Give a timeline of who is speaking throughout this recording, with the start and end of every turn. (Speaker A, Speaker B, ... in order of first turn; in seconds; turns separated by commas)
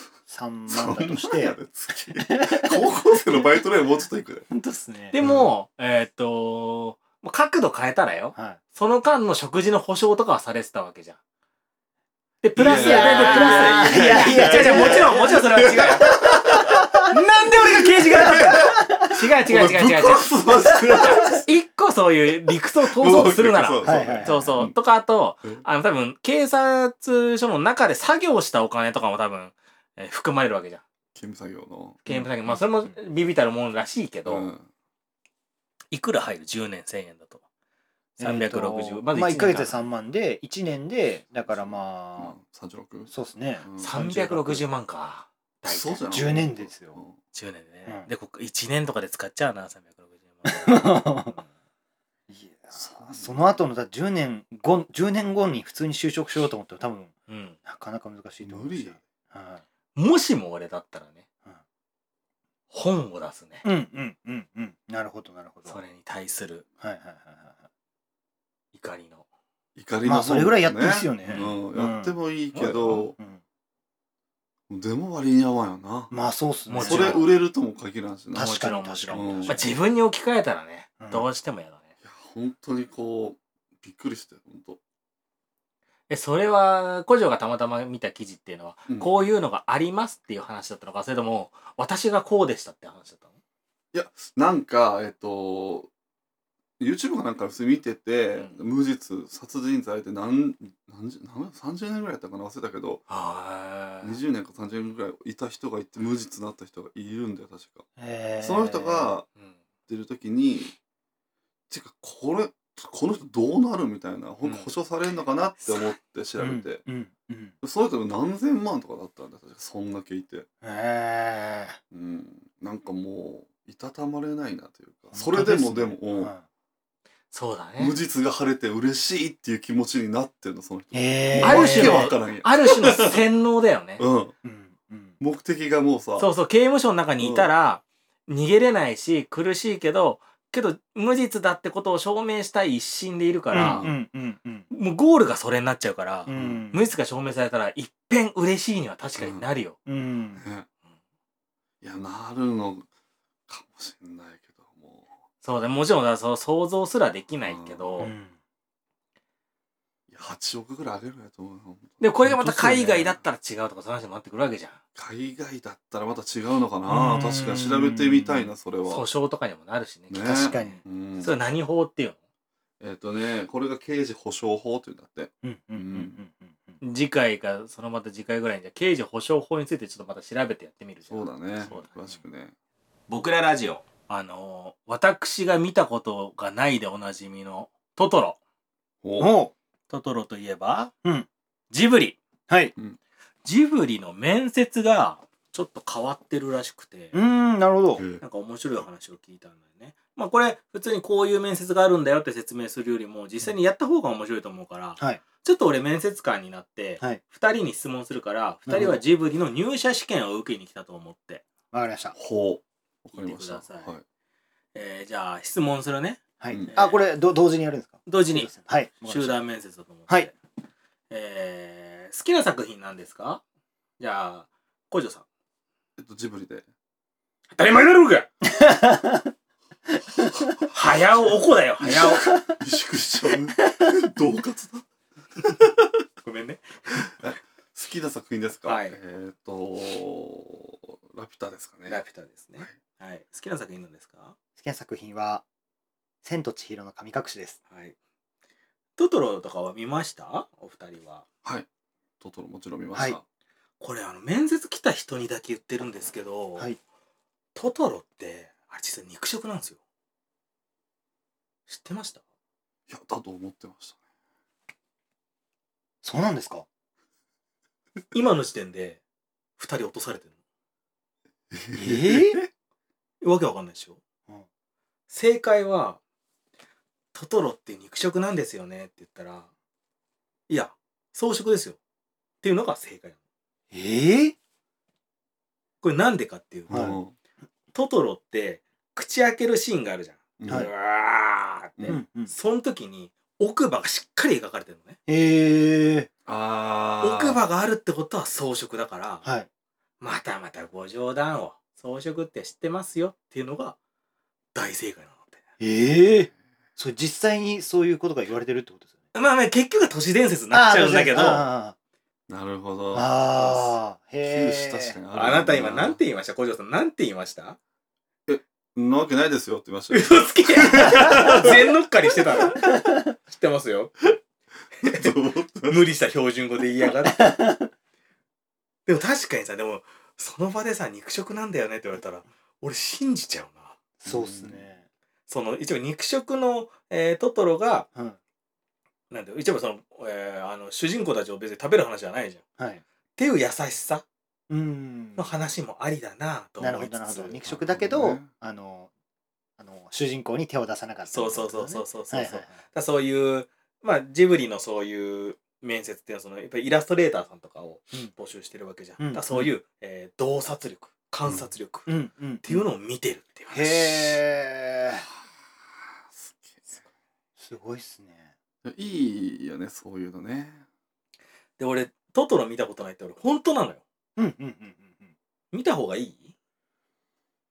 Speaker A: 0.3-1.6, Speaker B: 0.7-4.5, Speaker A: 2.2-3.6, Speaker A: 4.5-5.2, Speaker C: 5.1-11.2, Speaker B: 5.2-5.5, Speaker A: 8.3-8.6, Speaker C: 12.4-16.1, Speaker B: 12.6-16.7, Speaker A: 12.6-17.1, Speaker C: 17.1-30.8, Speaker B: 17.9-18.8, Speaker A: 18.1-19.1, Speaker B: 19.4-21.4, Speaker A: 20.6-21.4, Speaker B: 22.8-24.7, Speaker A: 23.8-24.6, Speaker B: 31.1-32.3, Speaker C: 32.0-34.5, Speaker B: 34.2-34.7, Speaker C: 35.9-37.4, Speaker A: 38.2-42.4, Speaker C: 38.2-39.8, Speaker B: 41.3-43.1, Speaker A: 43.1-44.6, Speaker B: 43.6-44.0, Speaker C: 43.8-46.1, Speaker B: 45.6-47.2, Speaker A: 46.1-47.0, Speaker C: 47.3-51.5, Speaker A: 50.4-51.4, Speaker A: 52.3-57.1, Speaker B: 52.7-53.5, Speaker C: 57.3-57.6, Speaker A: 57.6-59.6, Speaker B: 58.4-59.0, Speaker C: 60.0-61.2, Speaker C: 62.7-63.6, Speaker A: 63.6-65.8, Speaker C: 65.7-66.6, Speaker A: 66.8-67.6, Speaker C: 68.7-69.2, Speaker B: 69.8-73.1, Speaker A: 70.0-72.2, Speaker C: 71.3-71.6, Speaker C: 72.5-73.1, Speaker A: 73.1-73.4, Speaker B: 74.7-76.1, Speaker A: 76.1-77.2, Speaker C: 76.7-77.3, Speaker B: 76.8-78.5, Speaker A: 78.3-79.8, Speaker C: 78.3-81.8, Speaker B: 79.1-79.7, Speaker A: 81.0-81.3, Speaker B: 82.0-84.8, Speaker C: 86.1-93.3, Speaker B: 88.9-89.1, Speaker B: 93.9-95.9, Speaker B: 96.8-103.0, Speaker C: 98.3-98.6, Speaker C: 103.1-104.2, Speaker B: 104.0-107.8, Speaker A: 108.0-109.1, Speaker B: 108.4-109.3, Speaker B: 109.9-110.7, Speaker B: 111.7-116.8, Speaker C: 114.4-114.8, Speaker C: 115.6-116.0, Speaker A: 116.4-117.5, Speaker B: 117.6-120.5, Speaker A: 120.6-121.8, Speaker B: 121.9-126.3, Speaker A: 125.1-126.4, Speaker C: 127.3-128.0, Speaker B: 127.8-133.2, Speaker A: 130.9-132.1, Speaker C: 131.4-134.0, Speaker B: 134.0-134.3, Speaker A: 134.4-135.2, Speaker B: 135.2-136.3, Speaker C: 136.2-143.9, Speaker B: 137.2-137.5, Speaker A: 143.5-144.7, Speaker B: 143.5-143.9, Speaker C: 144.7-149.8, Speaker A: 146.3-146.9, Speaker B: 146.3-146.6, Speaker B: 149.2-149.5, Speaker A: 149.8-150.4, Speaker B: 150.3-150.7, Speaker B: 151.8-152.8, Speaker B: 153.5-155.1, Speaker C: 155.4-158.1, Speaker B: 157.4-158.1, Speaker A: 158.0-158.3, Speaker B: 160.1-163.2, Speaker C: 162.0-164.8, Speaker B: 164.9-169.1, Speaker A: 166.9-168.5, Speaker C: 168.9-172.2, Speaker B: 170.1-171.3, Speaker A: 170.2-170.8, Speaker B: 172.8-176.2, Speaker A: 175.4-176.8, Speaker C: 176.8-182.2, Speaker B: 181.1-182.5, Speaker C: 183.1-188.4, Speaker B: 189.0-189.3, Speaker A: 189.2-189.5, Speaker C: 189.9-190.9, Speaker C: 191.7-192.2, Speaker A: 192.5-192.7, Speaker C: 193.4-197.1, Speaker A: 197.1-198.0, Speaker B: 198.0-198.2, Speaker C: 198.2-211.4, Speaker A: 208.7-209.0, Speaker B: 208.7-209.0, Speaker A: 211.7-212.2, Speaker B: 212.2-214.0, Speaker C: 213.1-213.9, Speaker C: 214.7-217.0, Speaker A: 216.4-219.4, Speaker C: 218.1-220.3, Speaker C: 221.1-223.4, Speaker C: 224.0-225.2, Speaker B: 226.0-226.7, Speaker C: 227.5-228.3, Speaker A: 228.4-229.3, Speaker C: 230.7-232.3, Speaker B: 231.9-234.8, Speaker A: 232.1-232.6, Speaker C: 236.2-237.1, Speaker B: 237.2-242.0, Speaker C: 238.7-239.0, Speaker C: 241.9-244.3, Speaker A: 244.6-245.4, Speaker A: 246.2-247.6, Speaker C: 247.7-247.9, Speaker C: 249.0-251.2, Speaker B: 252.2-253.2, Speaker C: 253.8-256.7, Speaker C: 257.5-259.8, Speaker C: 261.7-262.2, Speaker B: 262.9-264.0, Speaker A: 266.0-266.6, Speaker C: 268.1-269.0, Speaker C: 269.6-270.3, Speaker B: 271.5-272.5, Speaker A: 271.8-272.4, Speaker C: 273.2-274.0, Speaker C: 275.1-276.0, Speaker C: 277.1-279.5, Speaker C: 280.5-281.8, Speaker C: 282.4-283.1, Speaker A: 283.7-284.3, Speaker C: 285.8-286.8, Speaker B: 286.7-287.1, Speaker A: 286.7-287.0, Speaker C: 287.7-295.0, Speaker B: 290.4-290.7, Speaker A: 291.9-292.3, Speaker A: 295.1-296.1, Speaker B: 296.2-297.4, Speaker C: 297.0-299.2, Speaker A: 299.2-299.5, Speaker C: 300.0-303.8, Speaker C: 304.5-305.4, Speaker A: 305.6-309.0, Speaker C: 309.1-311.5, Speaker A: 310.5-311.8, Speaker B: 312.3-313.1, Speaker A: 312.9-315.0, Speaker C: 313.4-313.8, Speaker B: 314.2-316.0, Speaker C: 315.1-317.6, Speaker B: 318.3-321.4, Speaker C: 319.9-324.0, Speaker A: 320.9-321.6, Speaker A: 322.6-323.0, Speaker B: 324.8-325.8, Speaker C: 324.9-325.1, Speaker C: 325.7-327.4, Speaker A: 327.1-327.7, Speaker C: 328.9-333.8, Speaker A: 334.0-334.8, Speaker B: 334.1-334.7, Speaker C: 335.3-337.9, Speaker A: 337.9-338.2, Speaker C: 339.1-342.4, Speaker C: 343.2-344.0, Speaker A: 344.5-345.4, Speaker C: 345.2-347.4, Speaker A: 346.6-348.9, Speaker B: 347.4-348.3, Speaker A: 349.6-352.6, Speaker C: 351.1-361.9, Speaker A: 359.0-359.5, Speaker A: 361.9-362.4, Speaker C: 362.4-364.2, Speaker A: 363.5-365.1, Speaker B: 366.1-366.6, Speaker A: 367.4-368.3, Speaker B: 368.6-370.6, Speaker C: 371.6-373.8, Speaker A: 374.2-375.1, Speaker C: 375.5-376.3